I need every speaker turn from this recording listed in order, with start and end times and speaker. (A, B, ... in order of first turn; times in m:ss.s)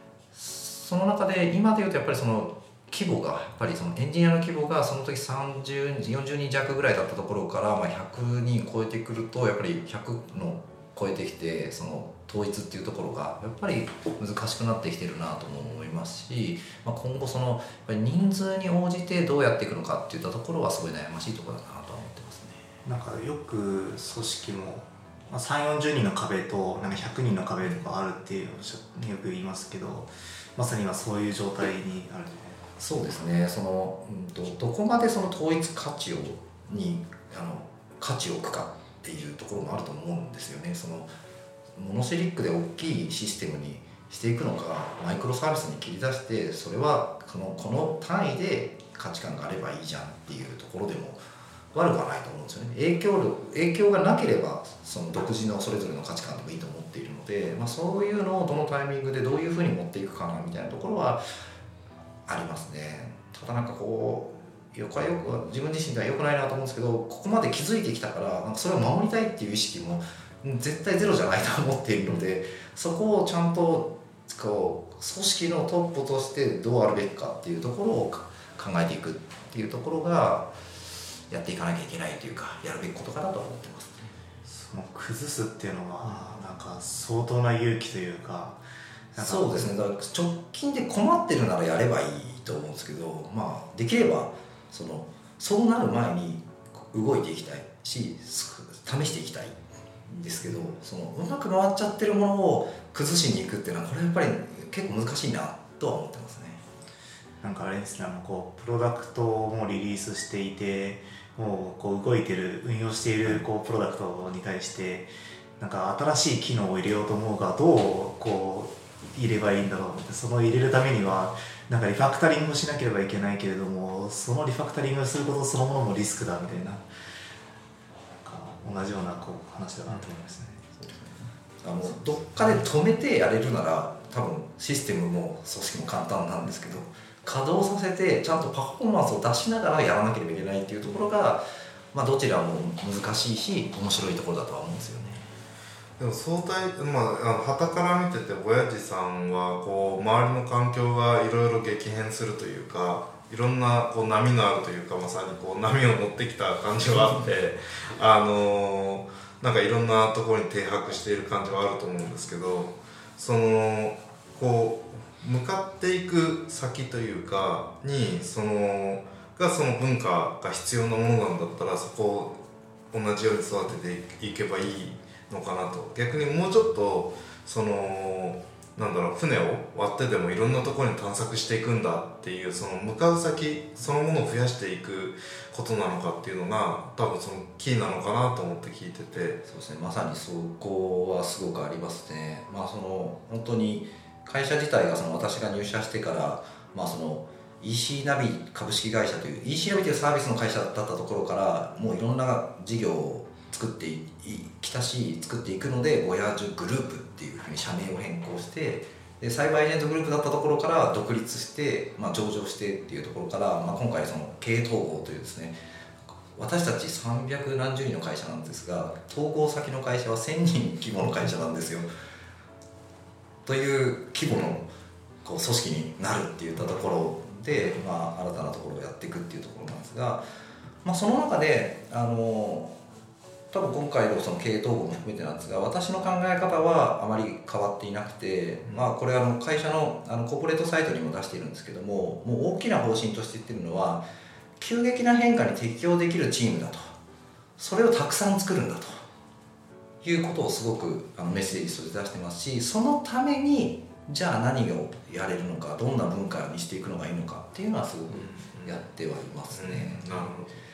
0:00.3-0:22.7 A
0:22.8-0:32.6 B
0:32.8-0:41.1 A
0:41.8-1:01.2 A
1:02.3-1:24.0 A
1:24.4-1:28.6 B
1:29.1-1:29.7 B
1:29.1-1:46.6 A
1:47.4-2:06.9 B
2:08.2-2:10.6 B
2:10.7-2:25.3 A
2:26.0-2:52.4 C
2:52.9-3:09.4 C
3:09.4-3:35.6 A
3:36.3-3:41.9 A
3:43.4-3:44.7 A
3:45.2-3:50.2 A
3:50.8-3:52.8 A
3:53.5-4:04.0 A
4:04.6-4:06.9 A
4:07.6-4:09.0 A
4:10.0-4:20.3 A
4:18.1-4:18.8 C
4:19.5-4:20.6 C